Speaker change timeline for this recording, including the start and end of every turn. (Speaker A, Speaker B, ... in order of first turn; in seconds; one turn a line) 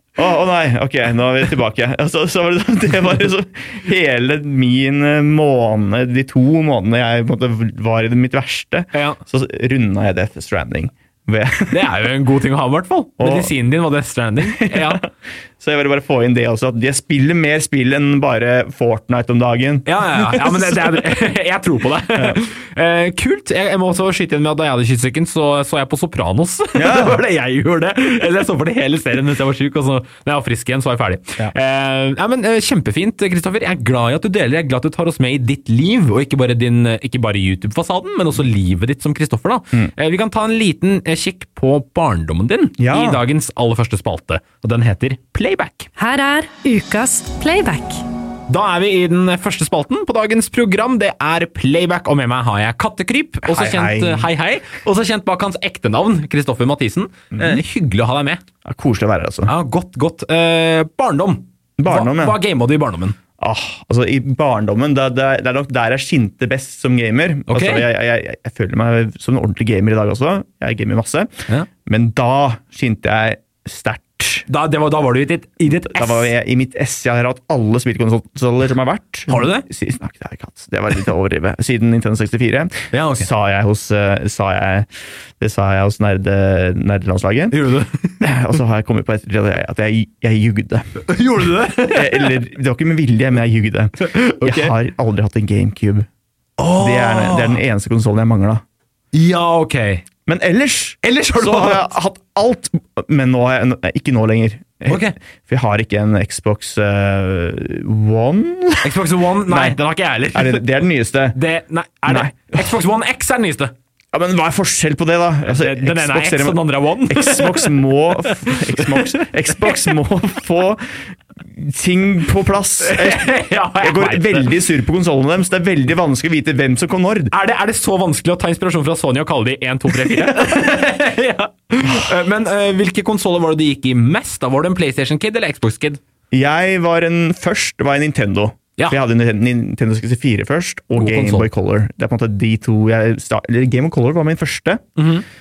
Speaker A: 0.1-11.9
Speaker B: 8.9-9.2
Speaker B: 11.7-15.0
Speaker A: 13.2-13.5
Speaker A: 14.4-15.1
Speaker A: 15.6-21.1
Speaker B: 19.9-45.9
Speaker A: 26.8-27.2
Speaker A: 42.8-43.2
Speaker C: 46.0-48.0
Speaker B: 48.5-58.4
Speaker A: 53.5-54.3
Speaker A: 57.3-57.6
Speaker A: 58.6-59.5
Speaker B: 59.5-63.2
Speaker A: 61.8-62.4
Speaker A: 63.4-74.5
Speaker B: 67.5-67.9
Speaker B: 74.5-76.3
Speaker A: 75.8-84.9
Speaker B: 79.3-79.7
Speaker B: 82.9-83.3
Speaker A: 85.4-87.6
Speaker B: 87.5-88.3
Speaker A: 88.2-90.9
Speaker B: 91.1-92.4
Speaker A: 91.9-96.1
Speaker B: 94.0-94.7
Speaker B: 96.6-97.6
Speaker A: 96.8-98.6
Speaker B: 99.1-100.1
Speaker A: 100.2-109.8
Speaker B: 101.0-101.9
Speaker B: 104.9-105.2
Speaker B: 108.8-110.7
Speaker A: 110.3-111.4
Speaker B: 111.3-113.7
Speaker A: 112.1-112.8
Speaker A: 114.1-127.3
Speaker B: 115.5-120.0
Speaker B: 122.8-124.6
Speaker B: 127.3-136.0
Speaker A: 130.0-130.6
Speaker A: 136.3-144.9
Speaker B: 140.9-141.5
Speaker B: 145.0-145.2